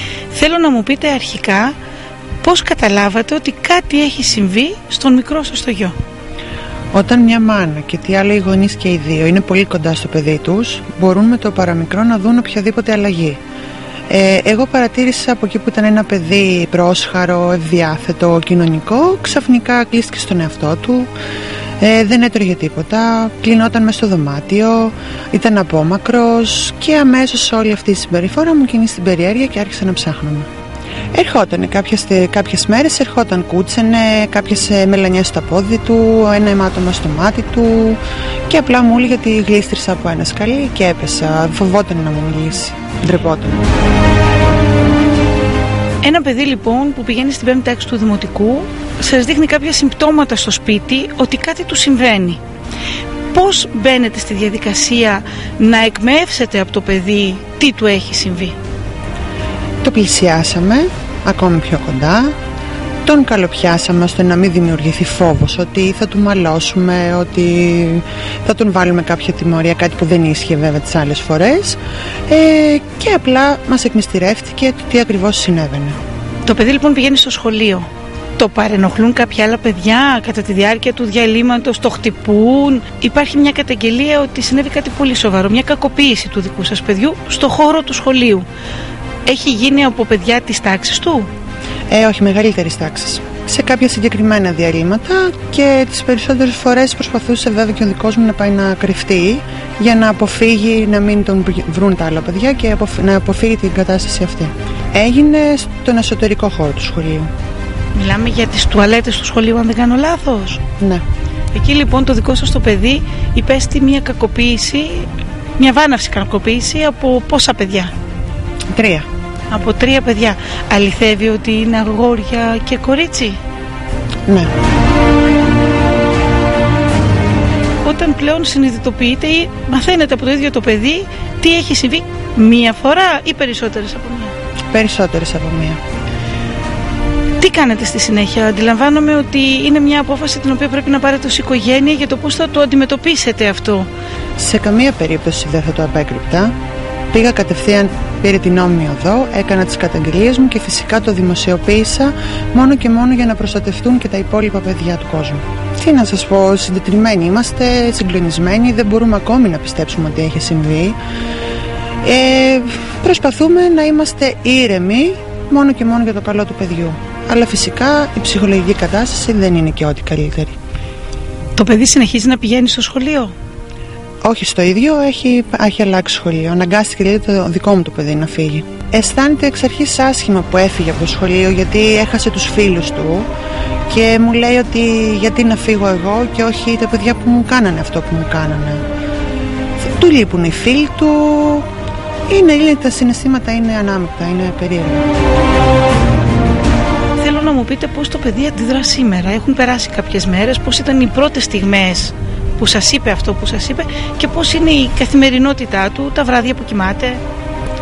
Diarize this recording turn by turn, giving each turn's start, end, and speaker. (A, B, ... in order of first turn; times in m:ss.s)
0:00.3-0:01.8 A
0:02.4-0:05.9 A
0:06.9-0:13.4 B
0:14.1-0:21.1 B
0:21.8-0:30.5 B
0:31.1-0:43.6 B
0:46.0-0:52.4 A
0:53.3-0:58.5 A
0:59.8-1:02.3 B
1:03.0-1:16.0 B
1:16.4-1:28.4 A
1:29.2-1:31.3 A
1:31.9-1:47.3 B
1:47.9-1:50.6 A
1:50.8-1:51.0 B
1:51.5-1:57.9 A
1:58.7-1:59.0 B
1:59.5-2:03.4 A
2:04.3-2:04.5 B
2:07.8-2:14.3 A
2:14.7-2:15.8 B
2:17.4-2:23.9 A
2:24.4-2:26.5 B
2:27.1-2:41.0 B
2:42.0-2:50.6 B
2:51.6-2:53.3 A
2:54.2-3:03.3 B
3:03.9-3:08.8 B
3:09.8-3:11.7 B
3:12.3-3:15.0 B
3:17.2-3:27.2 A